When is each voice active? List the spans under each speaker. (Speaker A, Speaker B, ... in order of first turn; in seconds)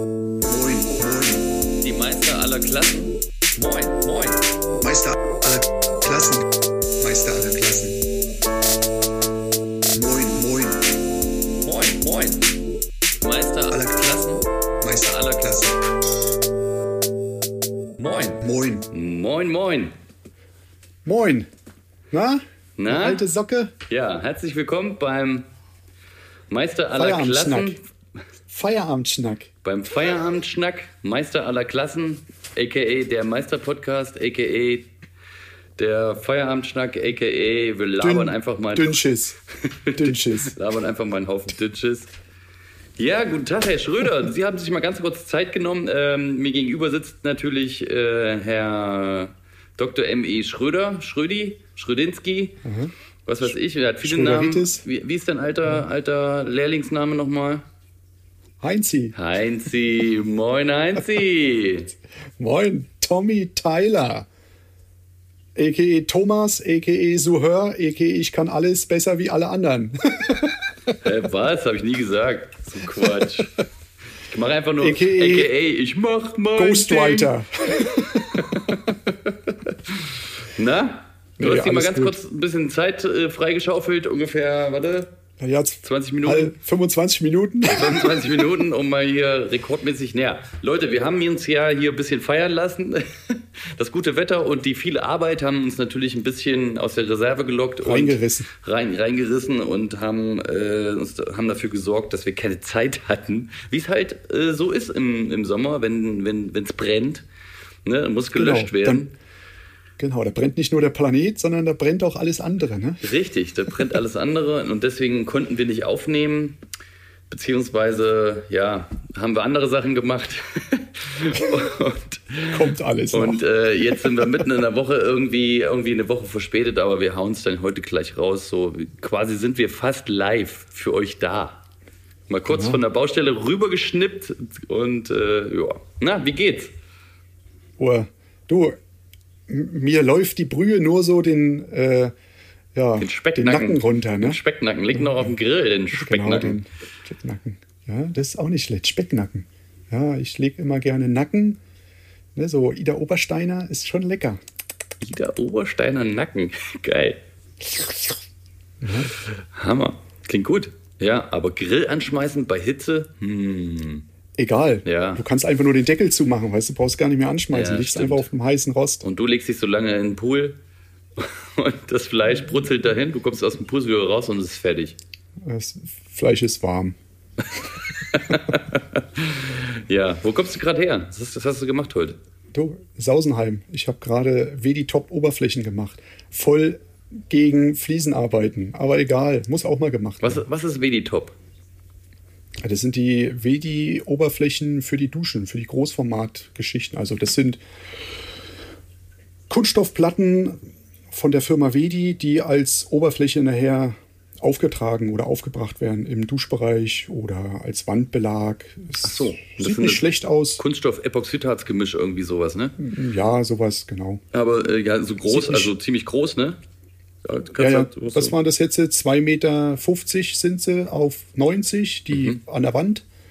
Speaker A: 0.4-1.5, 4.8-6.5, 7.0-8.0, 9.9-10.9, 14.8-15.8, 18.4-18.9, 21.1-21.5, 22.1-23.7, 26.9-27.8, 28.5-29.5, 38.0-39.4, 40.0-40.5, 52.6-52.9, 53.4-54.8, 58.6-59.1, 62.4-64.3, 65.6-70.5, 74.8-75.5, 76.6-78.7, 81.4-82.2, 85.4-88.4, 97.8-98.5, 108.3-109.1, 110.0-113.0, 122.5-124.3, 132.5-132.8, 137.8-138.8, 139.5-142.1, 142.8-144.4, 144.9-145.3, 145.9-151.6, 152.4-154.4, 158.8-159.1, 164.4-169.0, 175.4-176.9, 182.5-190.4, 192.6-197.6, 199.5-210.6, 212.8-214.2, 215.3-215.7, 217.6-223.0
Speaker B: 1.8-4.5, 11.5-12.5, 13.2-15.7, 18.0-19.9, 22.8-23.3, 23.9-25.5, 26.5-27.9, 29.6-34.9, 35.8-42.1, 43.0-52.6, 53.3-57.6, 59.1-61.9, 71.0-73.7, 74.3-77.3, 78.0-85.2, 85.8-86.5, 87.7-107.2, 107.8-109.1, 113.0-116.6, 117.3-131.6, 132.3-136.7, 143.0-146.6, 155.0-157.2, 159.5-164.1, 164.8-165.2, 167.5-168.3, 169.0-170.6, 171.2-175.0, 178.0-182.2, 190.2-191.3, 209.0-212.8, 214.3-216.6, 217.2-218.3